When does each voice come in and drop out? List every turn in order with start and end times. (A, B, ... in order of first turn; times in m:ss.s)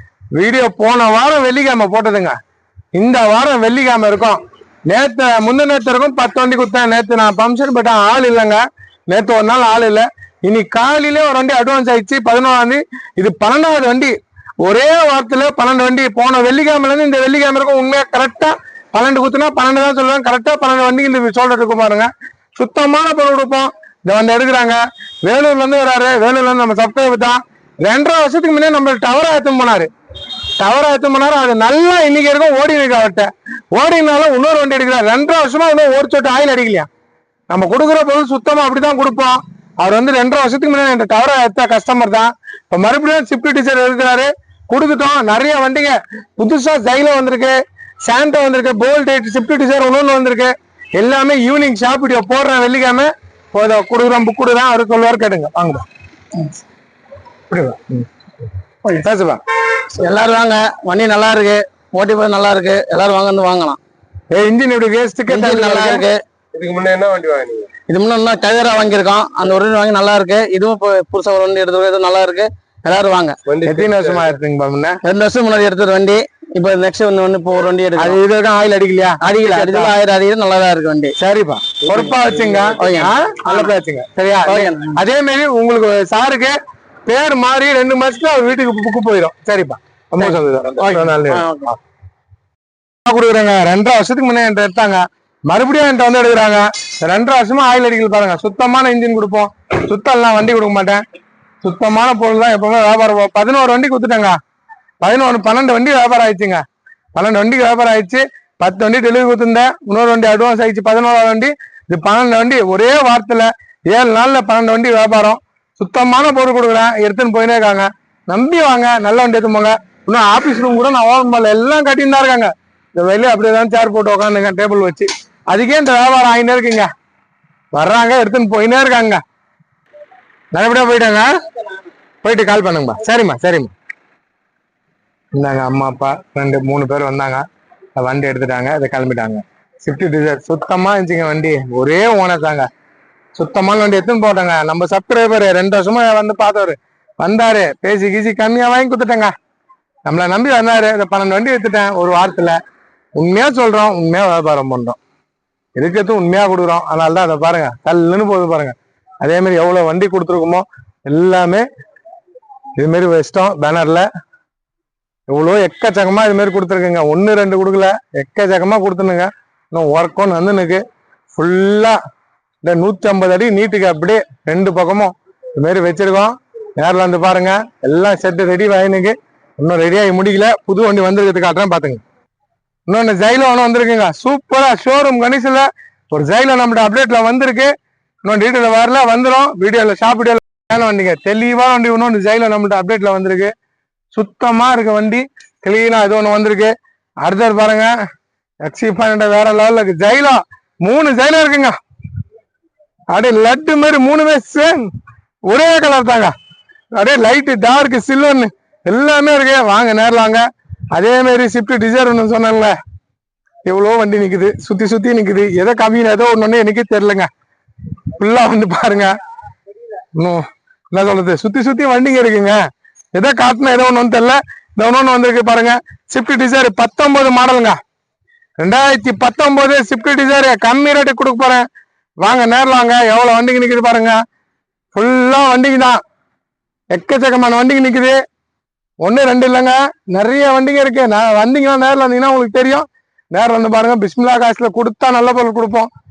0:00.3-0:02.3 A
0:02.9-0:29.9 A
0:30.6-0:36.9 A
0:37.5-0:55.8 A
0:57.5-0:58.0 A
0:58.8-0:59.4 A
0:59.9-1:03.8 B
1:04.3-1:06.0 A
1:05.3-1:06.2 B
1:06.5-1:07.7 C
1:07.9-1:13.4 B
1:13.5-1:14.3 C
1:13.6-1:15.0 A
1:15.0-1:18.2 B
1:18.0-1:19.9 A
1:19.2-1:21.1 B
1:21.2-1:31.7 A
1:21.9-1:23.7 B
1:24.4-1:25.0 B
1:31.3-1:31.7 B
1:33.1-1:41.0 A
1:41.6-1:44.4 A
1:45.0-1:46.6 A
1:47.1-2:06.9 A
2:07.7-2:09.2 A
2:10.5-2:11.3 A
2:12.2-2:13.7 A
2:15.3-2:17.4 A
2:18.0-2:22.7 A
2:23.4-2:29.3 A
2:30.0-2:32.6 A
2:33.2-2:35.0 A
2:35.8-2:41.6 A
2:42.8-2:44.0 A
2:45.3-2:50.8 A
2:51.3-2:52.0 A
2:52.6-3:02.0 A
3:02.9-3:07.7 A
3:08.2-3:13.5 A
3:14.1-3:17.9 A
3:18.6-3:21.8 A
3:23.1-3:24.8 A
3:25.5-3:26.3 A
3:26.9-3:32.7 A
3:33.6-3:37.3 A
3:38.2-3:39.1 A
3:40.2-3:42.6 A
3:43.1-3:47.8 A
3:48.6-3:51.6 A
3:52.2-3:54.2 A
3:54.9-3:56.0 A
3:56.9-3:58.2 A
3:59.0-4:05.9 A